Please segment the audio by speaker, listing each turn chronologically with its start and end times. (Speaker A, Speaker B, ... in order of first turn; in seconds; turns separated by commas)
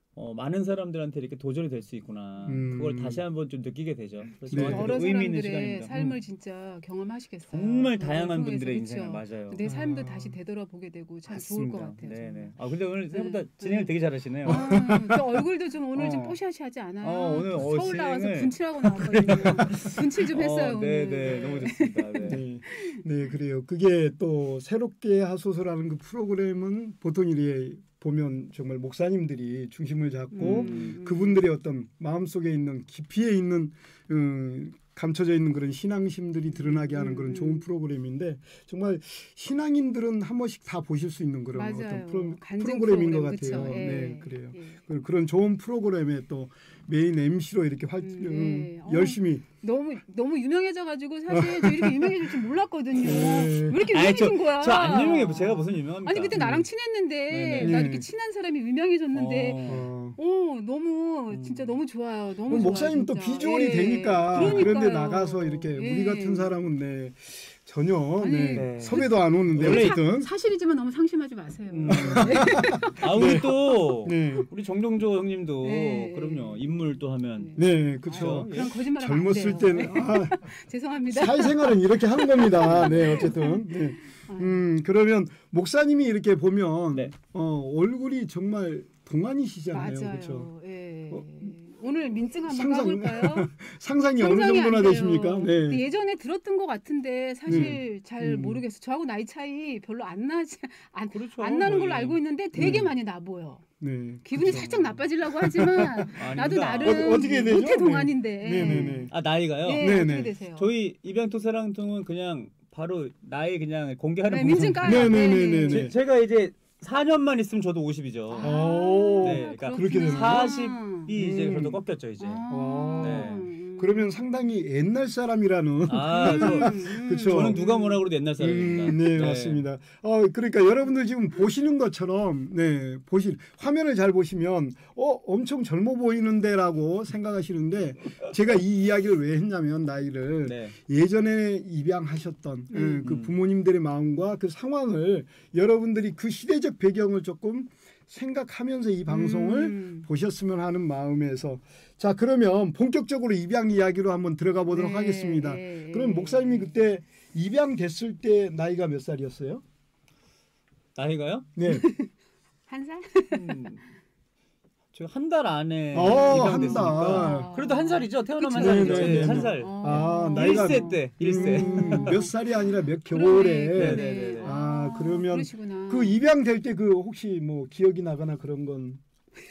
Speaker A: 0.2-5.9, Speaker B: 2.5-3.2, Speaker B: 4.5-4.9, Speaker C: 4.5-12.5, Speaker A: 7.5-9.6, Speaker B: 9.6-10.4, Speaker A: 11.3-14.8, Speaker C: 13.1-23.0, Speaker B: 14.5-15.4, Speaker A: 15.9-16.4, Speaker A: 17.0-22.4, Speaker B: 19.3-19.9, Speaker B: 22.2-49.5, Speaker C: 30.3-31.4, Speaker A: 30.4-30.9, Speaker C: 36.9-37.7, Speaker C: 41.5-44.8, Speaker C: 48.0-66.6, Speaker B: 51.3-52.4, Speaker B: 52.9-53.9, Speaker A: 53.1-56.7, Speaker B: 56.3-56.7, Speaker A: 57.3-57.9, Speaker B: 57.6-58.1, Speaker A: 59.1-59.9, Speaker B: 59.6-60.2, Speaker A: 61.3-61.8, Speaker B: 62.5-70.3, Speaker A: 64.3-64.7, Speaker C: 68.2-73.5, Speaker A: 68.5-70.0, Speaker A: 71.7-78.7, Speaker B: 71.8-74.5, Speaker C: 75.6-84.7, Speaker B: 77.6-80.5, Speaker B: 81.1-90.5, Speaker A: 82.7-83.0, Speaker C: 89.7-93.5, Speaker B: 91.1-91.5, Speaker B: 92.3-95.8, Speaker C: 94.2-103.6, Speaker A: 97.5-97.8, Speaker B: 97.5-98.6, Speaker A: 101.1-102.2, Speaker B: 102.5-102.9, Speaker B: 103.8-104.7, Speaker C: 104.2-110.7, Speaker A: 104.4-105.0, Speaker B: 105.3-106.1, Speaker A: 106.2-107.2, Speaker B: 106.8-109.1, Speaker A: 108.6-118.6, Speaker B: 109.8-110.3, Speaker C: 114.3-115.9, Speaker B: 114.5-116.0, Speaker C: 118.3-121.1, Speaker B: 118.4-120.5, Speaker A: 119.2-122.5, Speaker B: 121.1-121.8, Speaker C: 122.2-124.3, Speaker B: 122.5-127.6, Speaker A: 123.0-123.5, Speaker A: 125.9-129.6, Speaker C: 126.1-128.0, Speaker B: 128.4-159.6, Speaker A: 140.4-140.8, Speaker C: 142.7-143.0, Speaker A: 143.0-143.3, Speaker C: 149.1-150.1, Speaker C: 154.7-156.8, Speaker A: 161.0-161.5, Speaker B: 161.6-161.9, Speaker C: 161.7-162.1, Speaker C: 162.7-163.6, Speaker A: 163.3-163.8, Speaker A: 164.9-172.1, Speaker B: 165.9-167.5, Speaker C: 166.1-176.2, Speaker B: 168.5-179.0, Speaker A: 173.7-174.6